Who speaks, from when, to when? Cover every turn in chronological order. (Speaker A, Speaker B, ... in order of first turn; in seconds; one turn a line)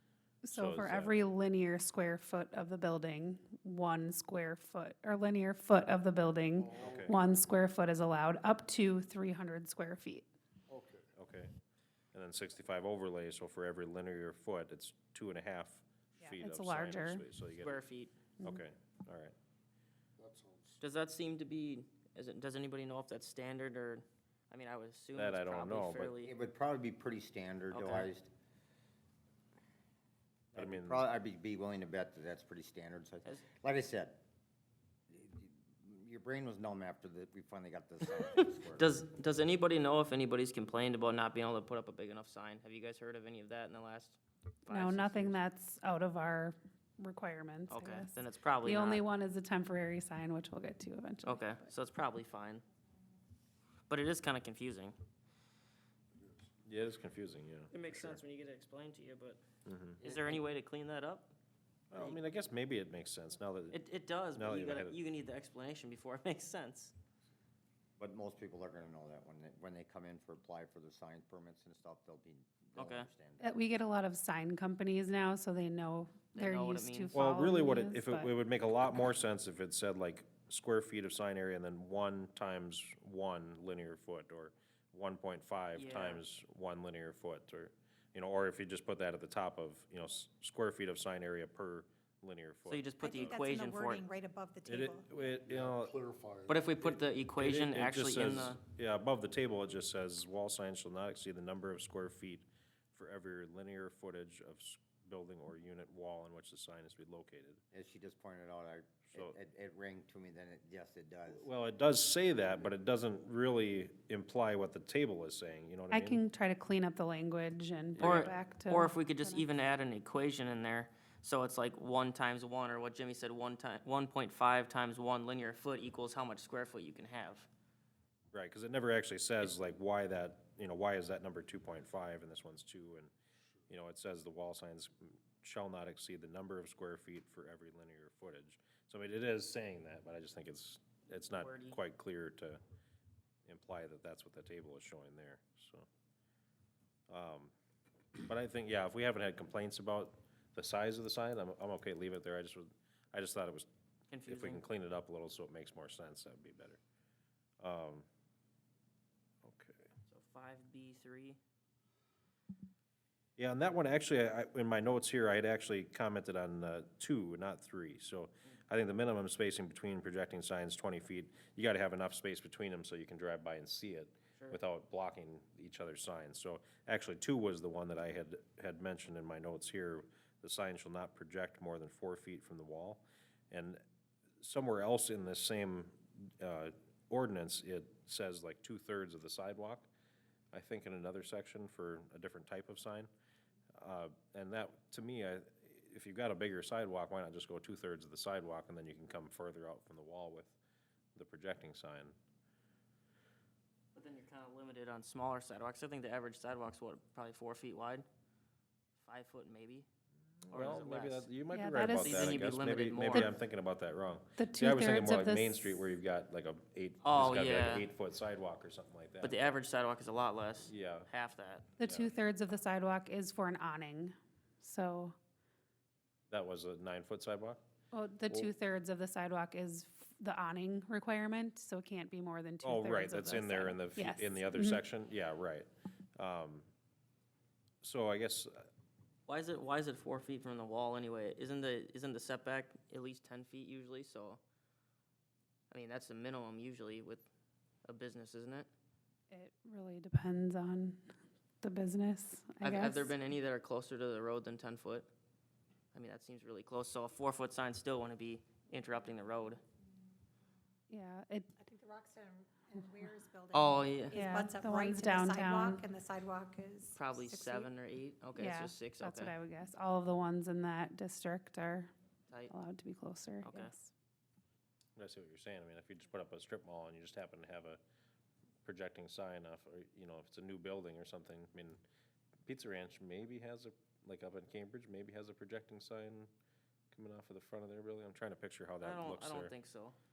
Speaker A: 0.4-10.3
Speaker B: 0.5-1.1
Speaker C: 6.6-7.1
Speaker B: 6.8-7.1
Speaker C: 10.7-11.1
Speaker B: 11.2-11.5
Speaker B: 12.1-17.8
Speaker A: 16.2-17.2
Speaker D: 17.6-18.1
Speaker B: 18.4-19.3
Speaker C: 20.2-20.8
Speaker D: 20.8-26.3
Speaker B: 25.1-26.1
Speaker E: 26.2-28.3
Speaker D: 27.7-28.1
Speaker E: 30.5-34.2
Speaker B: 30.5-31.0
Speaker E: 35.1-39.0
Speaker D: 38.1-45.4
Speaker A: 44.7-51.5
Speaker D: 47.7-49.0
Speaker D: 51.2-52.6
Speaker D: 53.9-55.0
Speaker B: 56.6-58.2
Speaker D: 57.7-59.4
Speaker B: 59.6-60.0
Speaker D: 60.0-61.3
Speaker E: 60.0-60.4
Speaker B: 61.9-63.8
Speaker D: 61.9-62.2
Speaker D: 63.7-66.9
Speaker B: 64.3-65.0
Speaker E: 68.0-73.5
Speaker D: 72.8-73.1
Speaker A: 73.4-78.3
Speaker D: 76.3-77.1
Speaker B: 77.1-93.4
Speaker D: 85.7-86.2
Speaker D: 92.7-94.0
Speaker F: 93.0-95.0
Speaker B: 94.7-96.0
Speaker C: 95.4-96.7
Speaker D: 96.5-98.6
Speaker B: 97.3-107.6
Speaker E: 107.7-111.5
Speaker B: 111.3-116.2
Speaker A: 115.9-119.5
Speaker D: 118.0-127.5
Speaker B: 118.0-118.3
Speaker B: 128.3-133.1
Speaker B: 133.7-142.6
Speaker D: 141.4-141.8
Speaker B: 143.4-145.8
Speaker B: 147.1-147.5
Speaker B: 148.2-153.7
Speaker D: 154.1-154.6
Speaker B: 154.3-156.8
Speaker B: 157.6-158.1
Speaker B: 159.4-159.8
Speaker D: 160.1-161.4
Speaker B: 163.4-183.8
Speaker B: 184.4-189.9
Speaker B: 190.5-193.1
Speaker B: 193.8-200.6
Speaker B: 201.2-202.1
Speaker D: 203.9-208.1
Speaker D: 209.0-209.9
Speaker B: 210.4-219.6
Speaker D: 210.5-211.3
Speaker A: 211.5-212.4
Speaker D: 212.0-213.3
Speaker A: 214.4-215.9
Speaker D: 217.0-217.9
Speaker D: 219.2-221.7
Speaker B: 220.6-221.1
Speaker A: 221.8-225.2
Speaker B: 221.8-222.1
Speaker B: 226.3-227.6
Speaker A: 227.9-234.8
Speaker B: 232.6-236.7
Speaker B: 237.8-238.7
Speaker D: 239.3-244.4
Speaker D: 245.7-247.2
Speaker D: 247.8-248.7
Speaker A: 249.3-251.1
Speaker A: 251.6-253.1
Speaker D: 252.6-255.1
Speaker D: 255.9-259.6
Speaker A: 260.9-261.5
Speaker F: 261.6-267.7
Speaker D: 263.5-264.2
Speaker A: 264.1-265.8
Speaker D: 266.9-269.3
Speaker A: 268.4-271.9
Speaker A: 272.5-273.9
Speaker D: 273.4-273.7
Speaker B: 275.0-277.8
Speaker B: 278.6-281.8
Speaker B: 282.4-286.3
Speaker B: 286.9-289.5
Speaker D: 288.8-290.0